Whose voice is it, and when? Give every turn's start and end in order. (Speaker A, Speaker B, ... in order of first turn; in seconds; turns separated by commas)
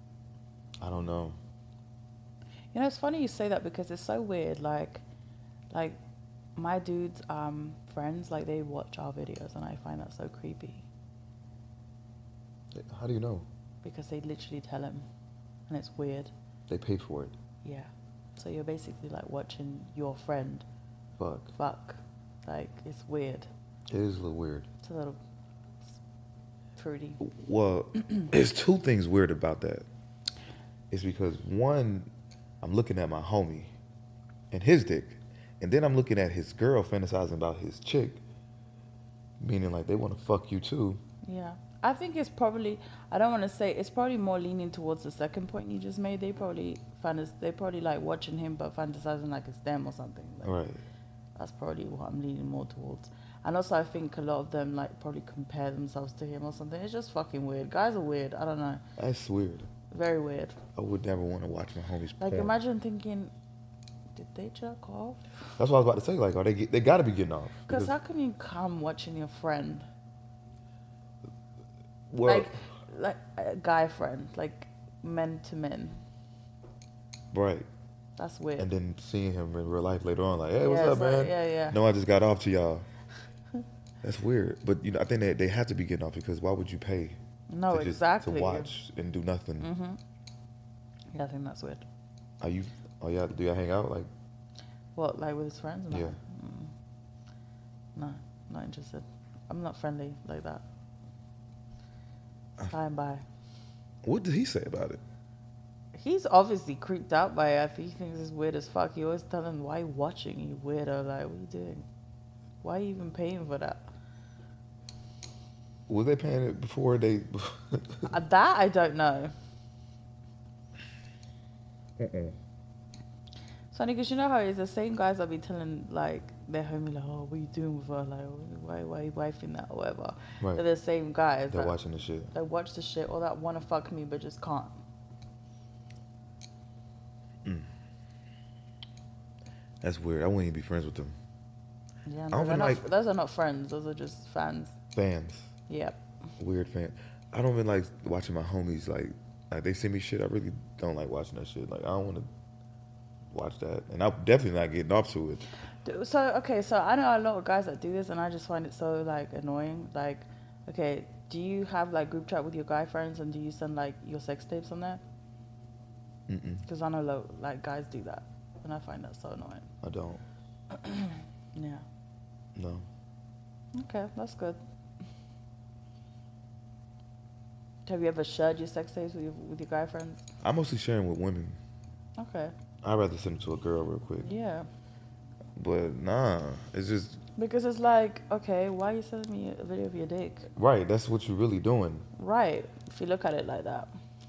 Speaker A: 0.8-1.4, Speaker B: 2.7-5.0, Speaker B: 5.7-6.0, Speaker B: 6.6-10.9, Speaker A: 12.7-13.5, Speaker B: 13.8-15.1, Speaker B: 15.7-16.3, Speaker A: 16.7-17.4, Speaker B: 17.6-20.7, Speaker A: 21.2-21.5, Speaker B: 21.6-23.5, Speaker A: 23.9-24.7, Speaker B: 24.8-25.2, Speaker B: 26.8-27.2, Speaker A: 27.2-29.9, Speaker A: 30.9-32.1, Speaker A: 32.6-33.7, Speaker A: 34.5-38.2, Speaker A: 39.4-41.0, Speaker B: 41.2-50.6, Speaker A: 50.4-50.8, Speaker B: 51.4-58.8, Speaker A: 59.0-59.7, Speaker B: 59.9-60.6, Speaker A: 60.8-62.5, Speaker B: 62.2-63.3, Speaker B: 64.1-65.3, Speaker A: 65.6-67.9, Speaker B: 67.7-69.9, Speaker A: 72.1-72.5, Speaker B: 72.2-76.0, Speaker A: 77.3-77.7, Speaker B: 78.2-78.7, Speaker A: 78.6-82.9, Speaker B: 80.6-81.8, Speaker A: 84.0-87.2, Speaker B: 87.5-88.7, Speaker A: 87.7-89.7, Speaker B: 89.6-90.0, Speaker B: 91.1-91.9, Speaker A: 92.4-94.1, Speaker B: 95.0-96.7, Speaker A: 95.9-96.2, Speaker B: 98.0-100.6, Speaker B: 102.7-103.2, Speaker A: 104.0-105.0, Speaker B: 106.0-111.9, Speaker B: 112.6-113.9, Speaker A: 115.9-118.1, Speaker B: 118.1-119.3, Speaker A: 122.0-122.3, Speaker B: 123.7-131.8, Speaker A: 130.4-130.7, Speaker A: 131.5-132.3, Speaker B: 132.3-134.8, Speaker A: 139.8-141.2, Speaker B: 142.1-144.8, Speaker A: 142.3-142.8, Speaker A: 144.9-145.5, Speaker B: 145.7-146.0, Speaker A: 146.4-152.3, Speaker A: 153.3-155.5, Speaker B: 155.8-165.0, Speaker A: 166.3-166.7, Speaker B: 166.7-169.7, Speaker A: 169.8-170.2, Speaker B: 170.7-171.8, Speaker A: 172.6-172.8, Speaker B: 173.7-174.6, Speaker B: 177.9-180.3, Speaker A: 180.4-181.6, Speaker B: 182.2-182.5, Speaker A: 182.8-184.3, Speaker B: 184.2-184.7, Speaker A: 185.6-187.2, Speaker B: 187.4-190.5, Speaker A: 190.6-192.1, Speaker B: 192.2-193.9